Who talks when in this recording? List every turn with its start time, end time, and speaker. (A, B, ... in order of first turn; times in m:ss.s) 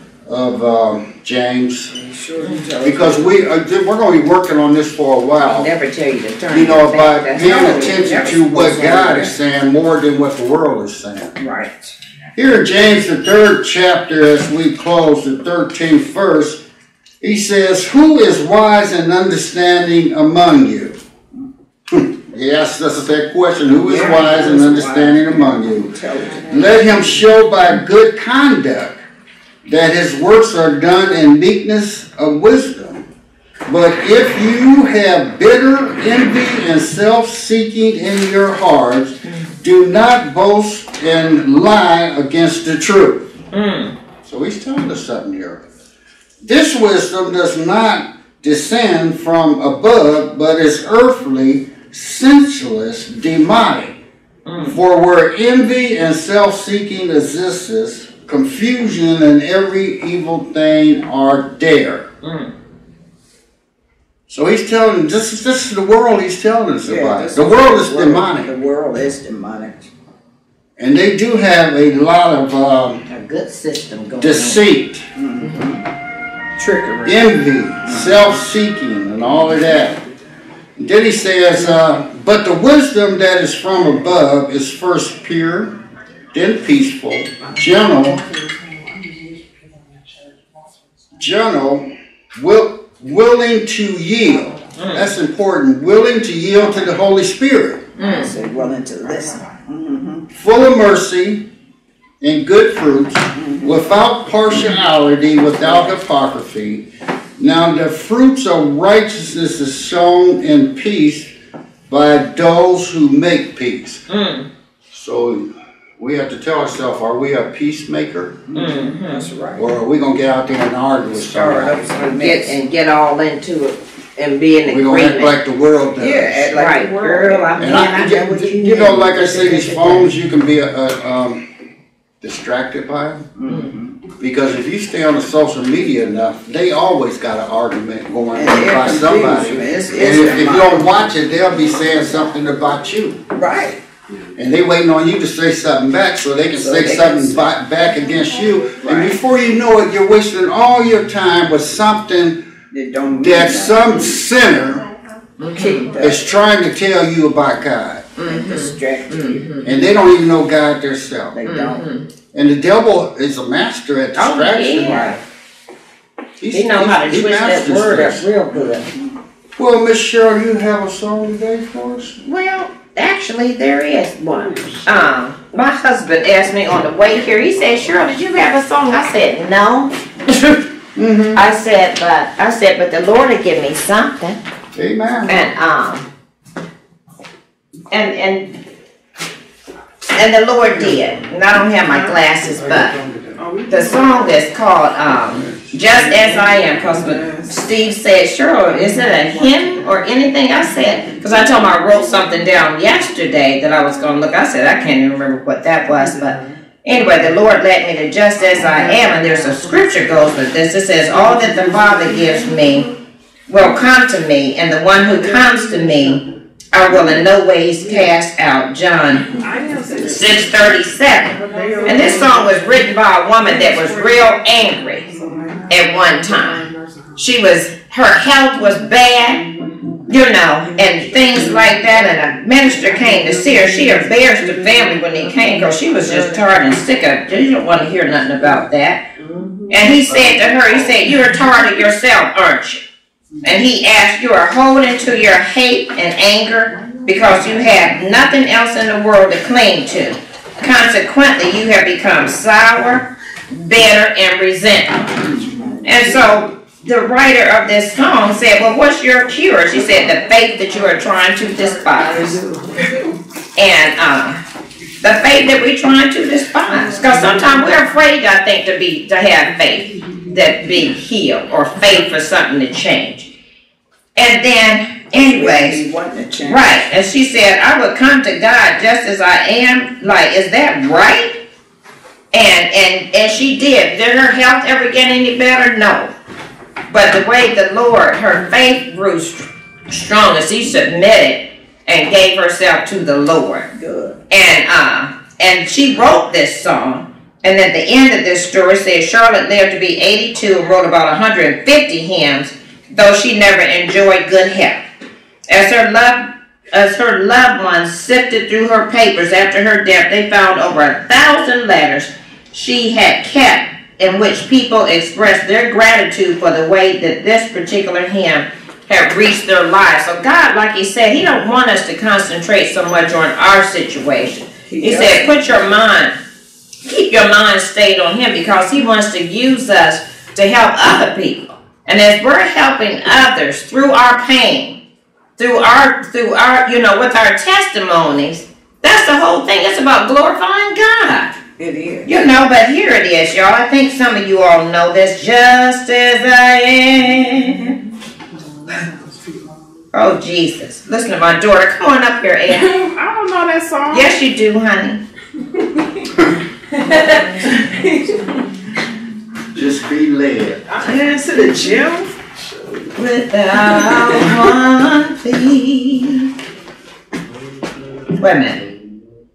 0:00.2-0:01.9 A
0:01.9-0:03.4 B
0:02.8-0:05.7 A
0:05.4-0:08.4 C
0:06.5-0:11.4 A
0:07.4-0:09.3 B
0:11.4-0:11.9 B
0:12.3-0:16.6 A
0:17.2-0:21.0 A
0:21.9-0:26.0 A
0:23.8-0:27.2 B
0:26.5-0:29.0 A
0:29.6-0:33.1 A
0:33.6-0:43.2 A
0:43.5-0:43.9 C
0:44.2-0:45.6 A
0:46.4-0:54.0 A
0:54.4-0:54.8 C
0:54.6-1:02.1 A
1:02.2-1:02.5 C
1:04.3-1:08.5 A
1:06.8-1:09.9 B
1:10.8-1:13.0 A
1:13.1-1:14.6 C
1:14.2-1:15.1 A
1:15.2-1:15.8 B
1:15.4-1:15.7 C
1:16.6-1:18.4 B
1:17.0-1:20.0 A
1:20.8-1:25.7 A
1:26.3-1:28.2 A
1:27.6-1:30.4 D
1:31.2-1:37.9 A
1:34.8-1:35.1 C
1:38.0-1:38.3 C
1:38.0-1:40.3 B
1:40.3-1:41.4 A
1:42.2-1:46.9 A
1:43.3-1:43.9 B
1:47.4-1:51.3 A
1:51.9-1:54.0 A
1:54.1-1:54.5 C
1:54.9-1:58.4 A
1:58.5-1:59.7 B
1:58.5-1:59.3 C
1:59.5-2:01.8 A
2:01.1-2:02.6 B
2:01.9-2:05.4 C
2:04.6-2:06.6 A
2:06.0-2:07.6 B
2:06.5-2:10.1 C
2:07.6-2:11.4 A
2:12.2-2:13.3 A
2:13.4-2:14.0 B
2:14.2-2:23.2 A
2:18.3-2:21.0 B
2:23.3-2:23.8 B
2:24.4-2:32.4 A
2:26.5-2:27.5 B
2:28.8-2:29.2 B
2:32.7-2:34.4 B
2:33.2-2:34.8 A
2:35.4-2:35.9 C
2:35.5-2:36.3 B
2:36.0-2:38.1 A
2:38.2-2:39.7 C
2:38.2-2:39.6 B
2:39.6-2:41.4 A
2:41.3-2:41.9 B
2:41.5-2:42.1 C
2:42.3-2:45.1 A
2:44.1-2:45.2 C
2:44.8-2:45.2 B
2:46.4-2:48.3 A
2:46.5-2:48.9 C
2:48.5-2:49.2 B
2:49.6-2:52.2 A
2:52.2-3:00.6 C
3:00.9-3:01.4 A
3:01.3-3:04.4 C
3:04.7-3:05.4 A
3:05.3-3:06.1 C
3:07.9-3:08.6 C
3:10.1-3:13.0 C
3:12.5-3:13.4 A
3:13.4-3:14.4 D
3:13.7-3:32.9 C
3:15.3-3:15.8 A
3:15.8-3:17.6 D
3:18.7-3:20.0 D
3:21.1-3:21.6 D
3:25.9-3:26.6 D
3:28.5-3:30.5 D
3:31.0-3:32.9 D
3:33.5-3:39.4 C
3:35.0-3:36.2 D
3:37.8-3:38.1 D
3:39.3-3:47.2 D
3:40.0-3:45.0 C
3:41.5-3:42.0 B
3:45.1-3:45.6 B
3:45.7-3:46.6 C
3:47.2-3:49.4 C
3:50.1-3:59.0 C
3:50.7-3:51.7 B
3:51.2-3:51.9 D
3:52.6-3:56.6 D
3:59.2-4:01.2 D
3:59.7-4:02.8 C
4:03.4-4:15.1 C
4:07.1-4:07.9 D
4:15.0-4:16.3 B
4:15.8-4:22.4 C
4:21.5-4:23.0 D
4:23.5-4:24.4 C
4:25.0-4:33.3 C
4:26.9-4:27.7 D
4:34.2-4:35.8 C
4:35.2-4:36.8 B
4:36.5-4:41.4 C
4:42.3-4:46.1 C
4:46.9-4:53.7 C
4:53.7-4:54.2 B
4:54.3-5:04.8 C
5:05.5-5:26.2 C
5:24.7-5:25.4 B
5:26.8-5:34.8 C
5:35.4-5:41.3 C
5:41.6-5:42.2 B
5:42.0-5:47.8 C
5:48.6-5:49.5 D
5:49.9-5:52.8 C
5:52.7-5:54.2 D
5:53.9-5:55.0 C
5:56.7-5:58.5 D
5:56.8-5:57.9 C
5:59.5-6:00.6 A
6:00.7-6:02.8 D
6:00.9-6:01.4 C
6:02.9-6:06.3 C
6:03.7-6:04.5 D
6:08.1-6:08.6 C